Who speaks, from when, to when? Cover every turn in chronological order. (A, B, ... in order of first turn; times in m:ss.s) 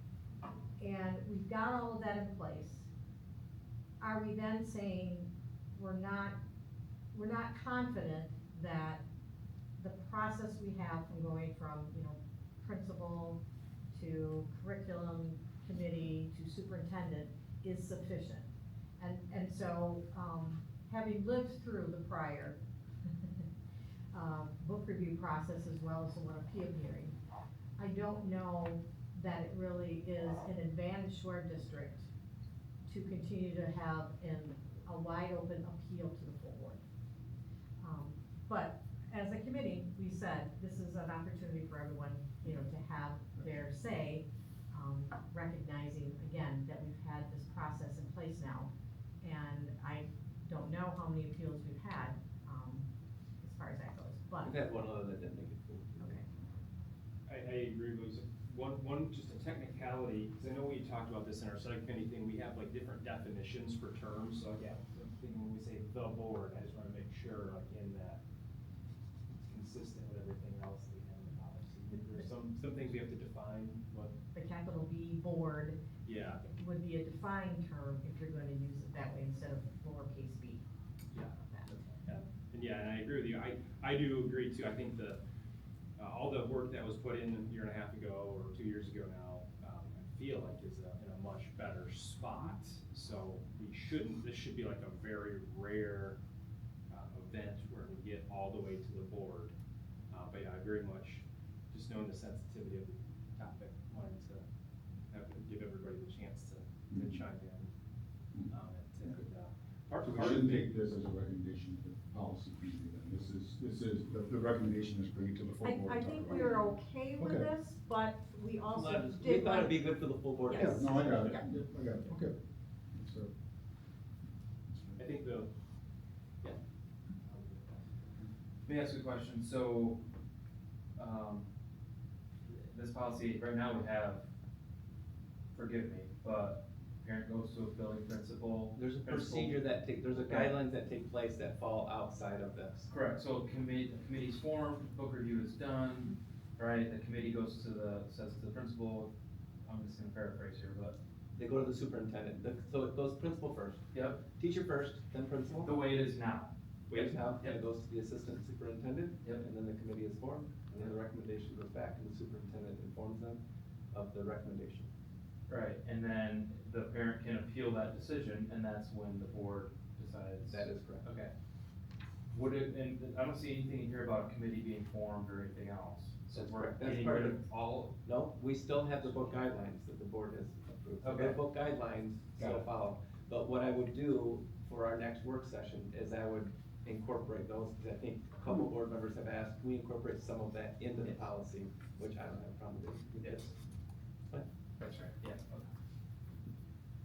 0:00.8-0:02.9 A
0:04.0-0:06.4 A
0:07.1-0:09.0 A
0:09.8-0:13.4 A
0:13.9-0:18.5 A
0:19.0-0:22.6 A
0:24.1-0:27.1 A
0:27.8-0:32.1 A
0:32.8-0:36.8 A
0:37.8-0:48.7 A
0:49.2-0:52.9 A
0:53.4-0:54.5 A
0:54.4-0:56.2 B
0:56.0-0:56.2 A
0:57.3-1:08.2 C
1:09.4-1:14.2 C
1:14.3-1:15.8 A
1:16.0-1:16.5 C
1:16.5-1:20.6 A
1:21.2-1:21.7 A
1:22.0-1:25.2 C
1:26.0-1:36.2 C
1:36.9-1:39.5 C
1:40.1-1:44.4 C
1:45.1-1:47.7 C
1:48.5-1:50.6 C
1:50.0-1:56.6 D
1:55.6-1:59.9 A
1:57.2-1:57.5 D
1:58.7-2:01.3 B
2:00.4-2:01.4 A
2:00.5-2:02.4 D
2:02.9-2:03.3 D
2:04.7-2:05.0 D
2:05.0-2:05.5 B
2:07.2-2:07.8 B
2:08.6-2:10.0 E
2:11.0-2:11.4 E
2:12.5-2:14.2 E
2:15.5-2:19.6 E
2:18.7-2:22.9 B
2:20.2-2:20.5 E
2:22.9-2:29.1 E
2:29.6-2:31.0 E
2:31.3-2:33.8 B
2:33.9-2:34.2 E
2:34.3-2:35.7 B
2:35.5-2:37.6 E
2:36.9-2:43.4 B
2:43.9-2:44.9 B
2:45.5-2:51.3 E
2:50.5-2:51.1 B
2:52.3-2:57.9 E
2:56.3-2:57.4 B
2:58.0-3:13.5 B
3:01.0-3:01.4 E
3:13.2-3:13.5 E
3:14.8-3:15.7 E